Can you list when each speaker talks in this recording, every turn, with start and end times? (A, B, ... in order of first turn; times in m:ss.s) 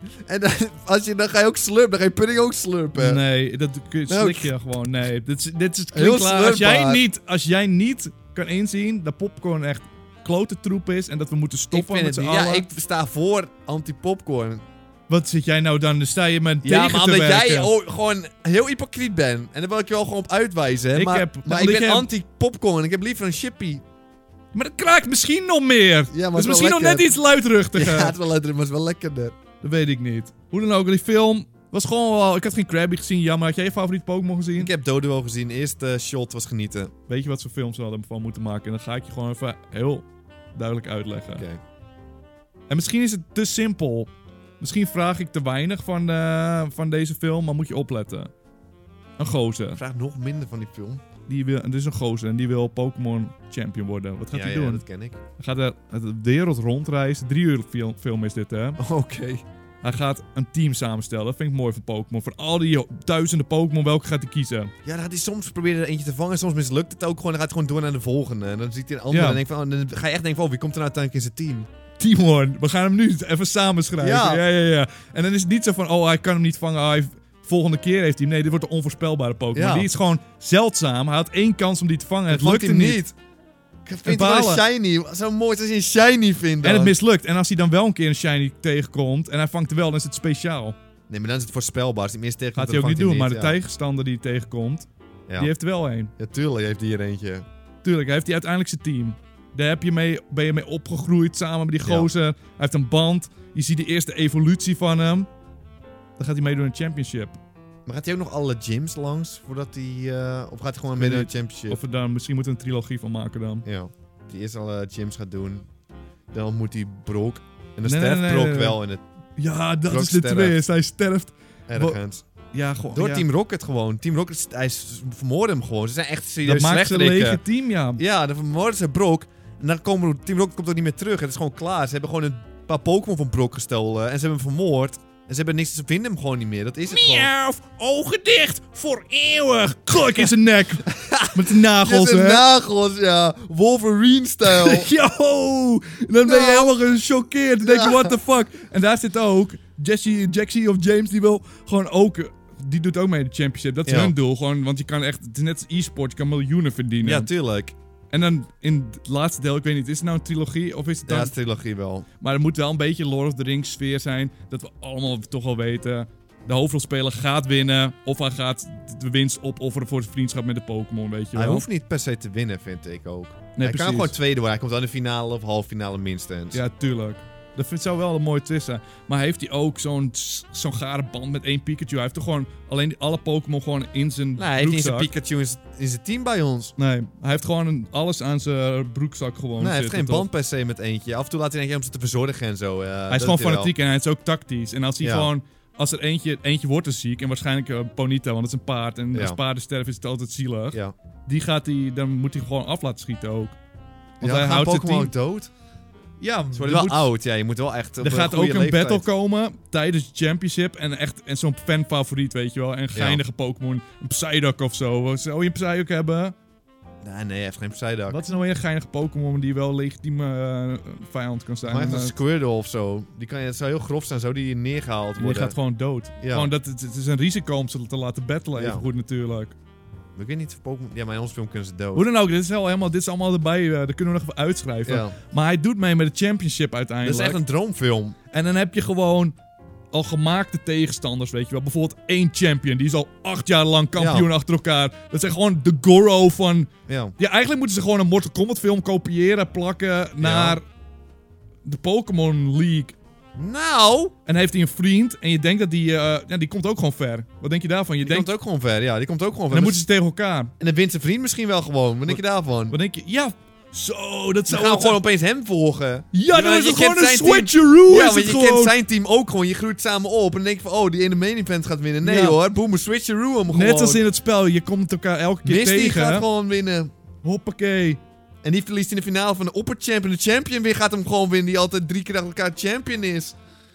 0:00.3-0:03.2 A
0:03.0-0:12.7 B
0:04.1-0:04.5 A
0:05.9-0:07.0 A
0:11.7-0:14.6 A
0:15.1-0:17.7 B
0:16.6-0:23.8 A
0:20.9-0:22.1 B
0:24.5-0:28.2 B
0:26.1-0:27.1 A
0:27.7-0:29.4 A
0:29.6-0:34.7 B
0:34.6-0:36.9 A
0:37.1-0:41.5 B
0:41.4-0:41.6 A
0:42.7-0:48.3 B
0:49.2-0:49.8 B
0:49.8-0:51.0 A
0:51.3-0:54.8 B
0:54.3-0:55.2 A
0:55.4-0:58.8 B
0:58.8-0:59.4 A
0:59.8-1:04.7 B
1:04.8-1:11.7 A
1:09.1-1:09.4 B
1:12.0-1:23.0 B
1:14.0-1:14.4 A
1:19.5-1:19.9 A
1:22.3-1:23.2 A
1:23.9-1:27.0 A
1:24.0-1:24.6 B
1:26.6-1:30.8 B
1:31.1-1:33.6 A
1:32.6-1:36.1 B
1:36.2-1:37.5 A
1:37.8-1:45.3 B
1:41.8-1:42.1 A
1:46.2-1:47.4 B
1:47.9-1:51.8 A
1:51.0-1:53.7 B
1:53.6-1:55.7 A
1:56.3-1:59.0 A
1:57.8-1:58.8 B
1:59.4-2:02.0 B
1:59.9-2:00.6 A
2:01.7-2:02.2 A
2:02.5-2:03.2 B
2:02.9-2:07.4 A
2:06.4-2:08.0 B
2:08.0-2:17.3 A
2:16.9-2:22.5 B
2:20.9-2:24.9 A
2:24.4-2:37.3 B
2:26.2-2:26.7 A
2:27.6-2:28.2 A
2:33.9-2:34.2 A
2:37.0-2:37.8 A
2:38.1-2:41.4 B
2:41.1-2:42.1 A
2:42.2-2:51.6 B
2:51.4-2:56.6 A
2:53.6-2:54.2 B
2:56.5-3:05.1 B
3:04.4-3:06.7 A
3:06.8-3:10.3 B
3:09.6-3:13.7 A
3:13.1-3:23.6 B
3:15.0-3:15.3 A
3:19.1-3:19.4 A
3:24.2-3:25.1 B
3:24.2-3:25.5 A
3:26.2-3:27.0 B
3:26.5-3:29.1 A
3:28.0-3:36.4 B
3:32.9-3:33.2 A
3:37.0-3:38.2 A
3:38.1-3:42.1 B
3:41.6-3:45.6 A
3:45.2-3:49.6 B
3:46.2-3:46.5 A
3:48.6-3:48.8 A
3:50.2-3:52.1 A
3:52.0-3:57.4 B
3:54.8-3:55.2 A
3:57.0-3:58.2 A
3:58.3-3:59.4 B
3:59.9-4:10.6 B
4:04.0-4:04.3 A
4:06.9-4:07.2 A
4:10.2-4:10.6 A
4:11.6-4:13.0 B
4:13.4-4:14.1 A
4:14.3-4:18.3 B
4:18.0-4:19.9 A
4:19.5-4:20.5 B
4:20.6-4:22.8 A
4:22.1-4:25.0 B
4:24.5-4:34.0 A
4:26.1-4:28.8 B
4:32.0-4:32.4 B
4:33.5-4:36.3 B
4:35.4-4:36.9 A
4:37.2-4:38.0 B
4:38.4-4:43.4 A